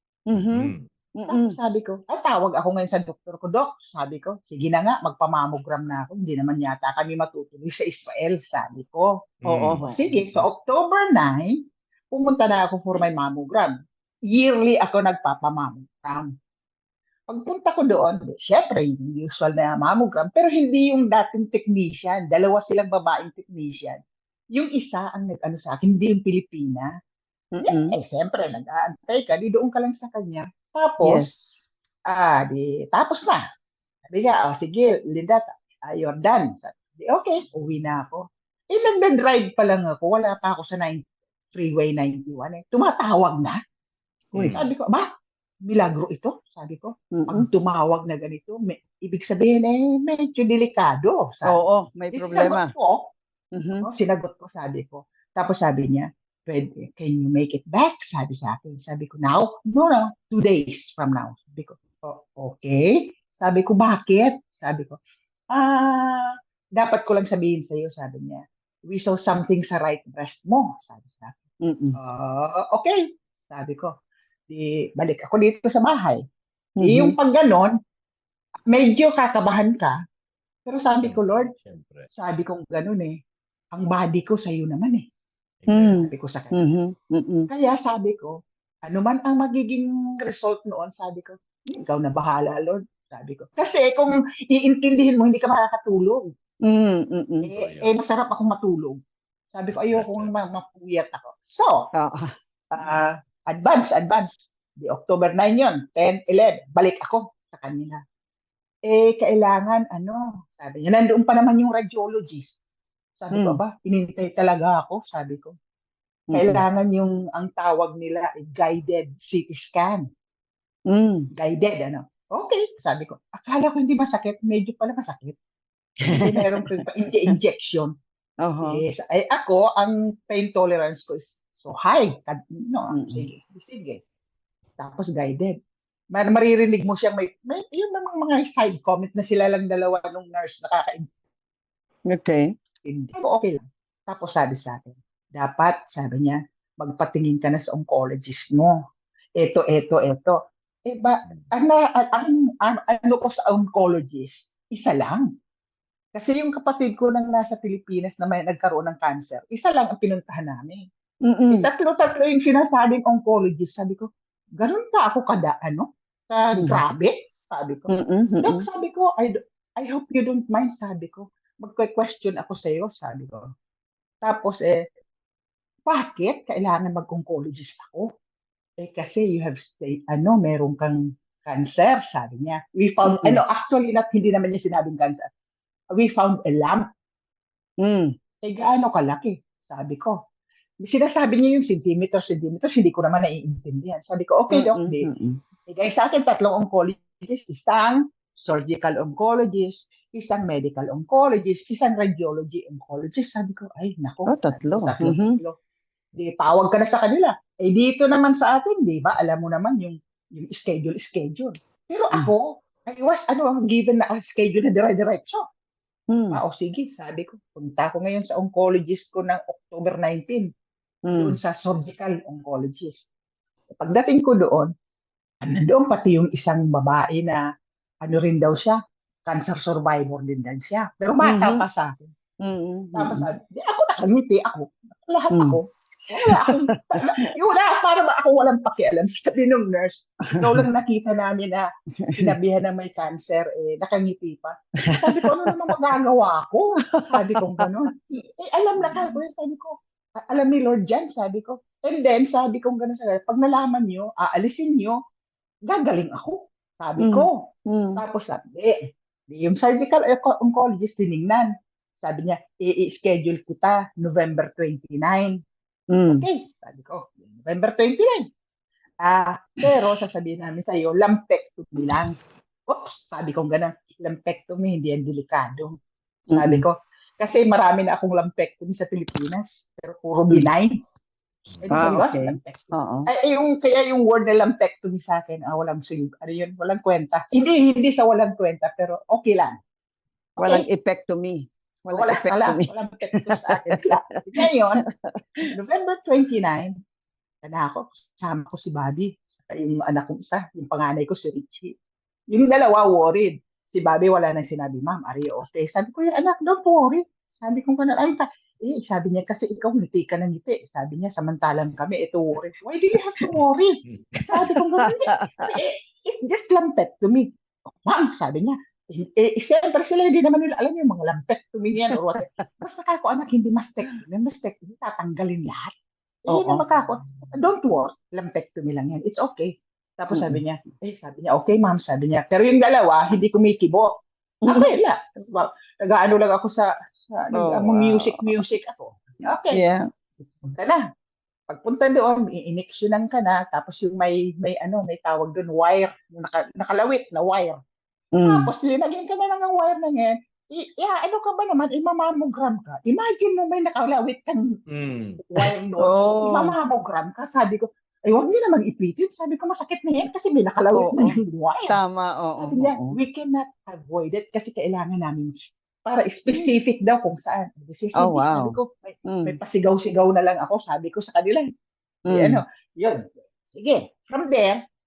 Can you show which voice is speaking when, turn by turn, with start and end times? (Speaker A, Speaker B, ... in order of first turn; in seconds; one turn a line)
Speaker A: 0.3-1.6
Speaker B: 0.3-0.8
Speaker C: 1.3-9.2
Speaker B: 9.4-10.4
Speaker A: 9.5-10.0
Speaker C: 9.8-13.7
Speaker C: 14.3-16.3
Speaker C: 17.3-24.0
Speaker C: 24.5-26.9
Speaker A: 27.5-27.9
Speaker C: 27.6-31.3
Speaker A: 31.0-31.4
Speaker C: 32.1-33.4
Speaker C: 34.1-43.6
Speaker A: 44.3-44.6
Speaker B: 44.4-44.7
Speaker C: 44.5-45.1
Speaker C: 45.7-51.6
Speaker A: 47.1-47.5
Speaker A: 51.5-52.7
Speaker C: 52.1-53.1
Speaker A: 53.5-53.9
Speaker C: 53.8-65.0
Speaker C: 65.5-71.4
Speaker A: 71.6-72.0
Speaker C: 72.0-73.9
Speaker C: 74.5-76.2
Speaker A: 76.8-77.2
Speaker C: 76.8-77.8
Speaker C: 78.7-80.0
Speaker C: 80.7-81.5
Speaker B: 81.0-82.1
Speaker C: 82.1-83.2
Speaker C: 83.7-85.1
Speaker B: 85.6-85.9
Speaker A: 85.7-87.5
Speaker C: 85.9-86.6
Speaker C: 87.5-96.3
Speaker A: 96.6-97.5
Speaker C: 97.4-99.0
Speaker B: 97.5-97.9
Speaker C: 99.5-101.9
Speaker B: 99.7-100.3
Speaker A: 102.0-102.3
Speaker C: 102.7-108.0
Speaker C: 108.9-112.6
Speaker C: 113.2-115.5
Speaker A: 113.3-113.6
Speaker A: 116.3-116.6
Speaker C: 116.3-120.1
Speaker A: 120.9-121.3
Speaker C: 121.3-125.4
Speaker A: 126.0-126.8
Speaker C: 126.1-127.9
Speaker A: 128.4-128.8
Speaker C: 128.6-134.0
Speaker A: 132.9-133.2
Speaker C: 134.8-135.6
Speaker C: 136.1-141.1
Speaker A: 142.1-142.5
Speaker C: 142.8-148.7
Speaker C: 149.4-155.3
Speaker C: 156.2-160.9
Speaker A: 161.2-161.7
Speaker C: 161.5-173.5
Speaker A: 166.6-166.8
Speaker A: 167.9-168.7
Speaker C: 174.2-174.9
Speaker C: 175.9-178.1
Speaker C: 178.8-185.3
Speaker A: 183.1-183.4
Speaker C: 185.9-186.8
Speaker A: 187.8-188.2
Speaker C: 188.4-190.2
Speaker C: 190.8-195.1
Speaker A: 194.5-195.4
Speaker C: 195.7-205.6
Speaker A: 204.3-205.4
Speaker C: 206.2-215.4
Speaker A: 216.1-216.4
Speaker C: 216.3-220.5
Speaker A: 221.1-221.4
Speaker C: 221.2-223.1
Speaker C: 223.8-224.7
Speaker C: 225.4-227.4
Speaker C: 228.0-232.1
Speaker A: 231.2-231.7
Speaker A: 232.4-233.3
Speaker C: 233.0-255.0
Speaker A: 235.3-235.6
Speaker A: 236.2-236.6
Speaker A: 240.3-240.6
Speaker A: 242.0-242.3
Speaker A: 244.8-245.5
Speaker A: 246.9-247.7
Speaker A: 248.8-249.2
Speaker C: 255.7-265.4
Speaker A: 257.0-258.0
Speaker A: 265.9-266.2
Speaker C: 266.1-268.3
Speaker C: 269.0-272.2
Speaker C: 272.7-275.8
Speaker A: 276.3-276.6
Speaker C: 276.4-280.8
Speaker B: 281.5-281.9
Speaker C: 281.6-289.6
Speaker A: 281.7-283.1
Speaker A: 290.4-292.7
Speaker C: 290.4-290.7
Speaker C: 291.9-294.9
Speaker A: 293.2-293.8
Speaker A: 294.4-295.4
Speaker C: 295.5-296.7
Speaker C: 297.4-301.7
Speaker C: 302.3-317.3
Speaker A: 314.5-315.5
Speaker C: 317.9-325.7
Speaker A: 321.9-322.6
Speaker C: 326.3-333.9
Speaker A: 326.3-326.6
Speaker A: 330.1-330.4
Speaker C: 334.5-339.6
Speaker A: 337.3-338.3
Speaker A: 339.5-339.9
Speaker C: 340.4-340.8
Speaker C: 341.5-347.6
Speaker A: 348.1-348.5
Speaker C: 348.2-354.5
Speaker B: 354.7-355.2
Speaker C: 355.3-361.8
Speaker A: 355.8-356.6
Speaker A: 360.7-361.2
Speaker A: 361.7-363.0
Speaker C: 362.4-365.3
Speaker C: 365.9-371.5
Speaker A: 368.0-369.4
Speaker A: 372.1-372.4
Speaker C: 372.1-374.6